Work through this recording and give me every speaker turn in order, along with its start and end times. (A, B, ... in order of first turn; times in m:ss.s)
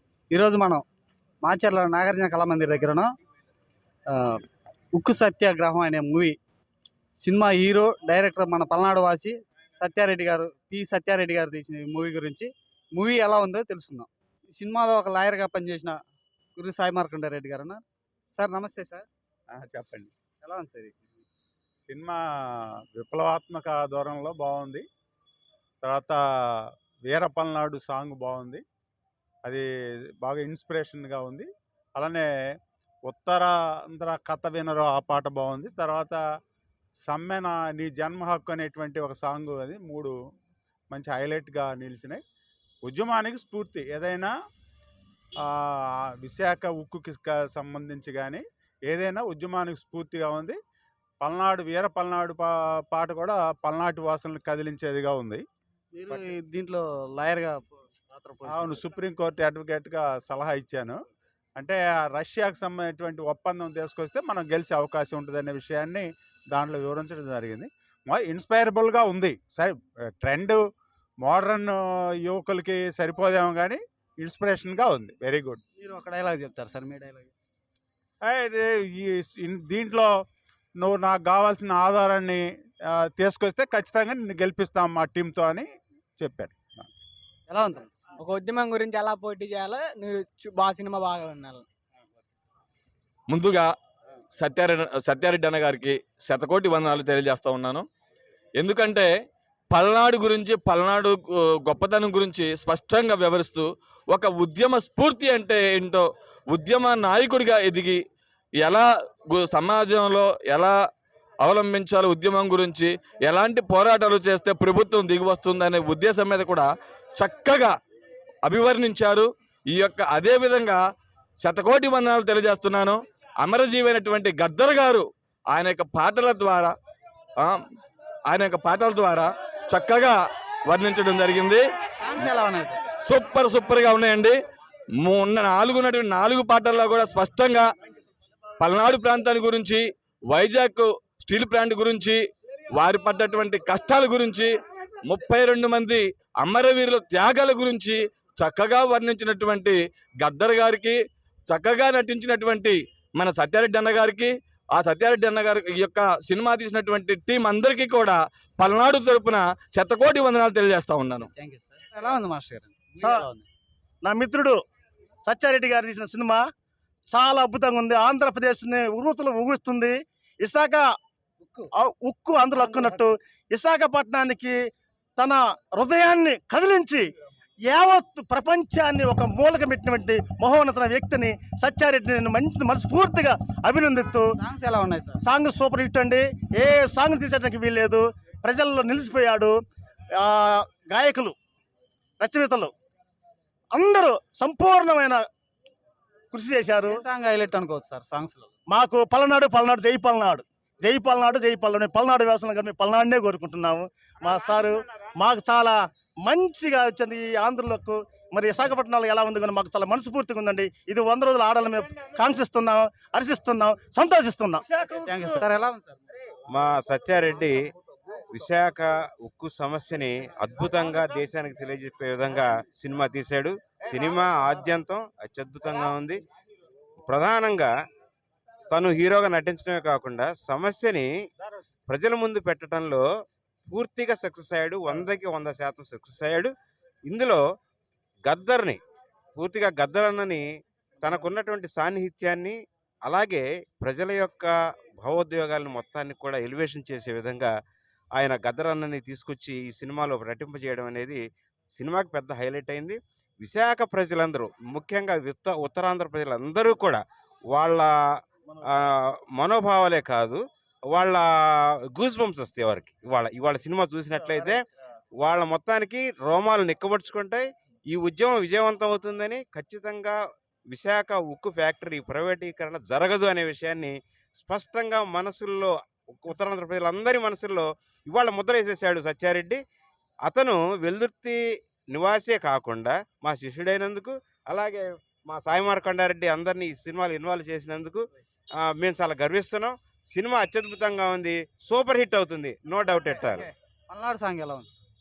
0:00.3-0:00.8 A
0:01.4-0:03.1 A
0:04.1-0:04.4 A
0:04.9-0:06.4 A
0:07.2-0:16.0 A
0:16.6-0:17.8 A
0:18.4-0:19.1 A
0:19.5-0:20.1 B
0:20.4-0:21.2 A
0:21.9-0:24.9 B
0:25.8-0:28.6 B
0:30.2-0:32.3 B
0:33.1-0:36.2 B
0:37.0-0:40.1 B
0:40.9-0:42.2 B
0:42.8-0:44.3 B
0:45.4-0:50.6 B
0:51.2-0:55.4 B
0:55.9-0:58.9 A
0:58.5-1:01.0 B
1:01.6-1:10.6 B
1:11.2-1:15.6 B
1:15.8-1:17.3 A
1:18.2-1:20.1 B
1:20.8-1:26.6 B
1:27.5-1:27.9 A
1:28.2-1:31.6 C
1:33.3-1:33.7 D
1:34.4-1:37.9 D
1:38.6-1:39.1 D
1:39.7-1:48.0 D
1:48.6-1:50.7 D
1:51.4-1:57.7 D
1:58.4-2:00.8 D
2:01.4-2:06.7 D
2:08.3-2:10.2 D
2:10.7-2:11.6 D
2:12.0-2:12.8 A
2:13.0-2:14.4 D
2:15.0-2:17.6 D
2:18.6-2:22.2 D
2:22.7-2:24.5 D
2:25.1-2:31.0 D
2:31.5-2:41.3 D
2:41.2-2:43.5 A
2:44.0-2:44.6 E
2:45.2-2:46.4 E
2:47.1-2:50.9 E
2:51.8-2:54.6 E
2:52.6-2:53.0 C
2:55.2-2:57.1 E
2:57.7-3:04.3 E
3:04.4-3:05.2 A
3:05.2-3:09.5 E
3:10.2-3:11.4 E
3:12.2-3:12.7 E
3:13.7-3:15.3 E
3:16.3-3:17.0 E
3:16.9-3:18.5 A
3:18.7-3:34.6 E
3:34.9-3:36.0 A
3:36.5-3:37.6 F
3:38.3-3:46.2 F
3:47.0-3:47.7 F
3:48.7-3:51.1 F
3:51.9-3:53.0 F
3:53.7-3:56.5 F
3:57.1-3:57.4 F
3:58.3-3:58.8 F
3:59.4-4:00.4 F
4:01.0-4:07.5 F
4:08.2-4:11.2 F
4:11.7-4:17.9 F
4:18.8-4:21.2 F
4:21.9-4:24.6 F
4:25.2-4:30.2 F
4:30.7-4:39.6 F
4:40.3-4:41.4 F
4:41.9-4:48.0 F
4:48.6-4:53.4 F
4:53.3-4:54.8 A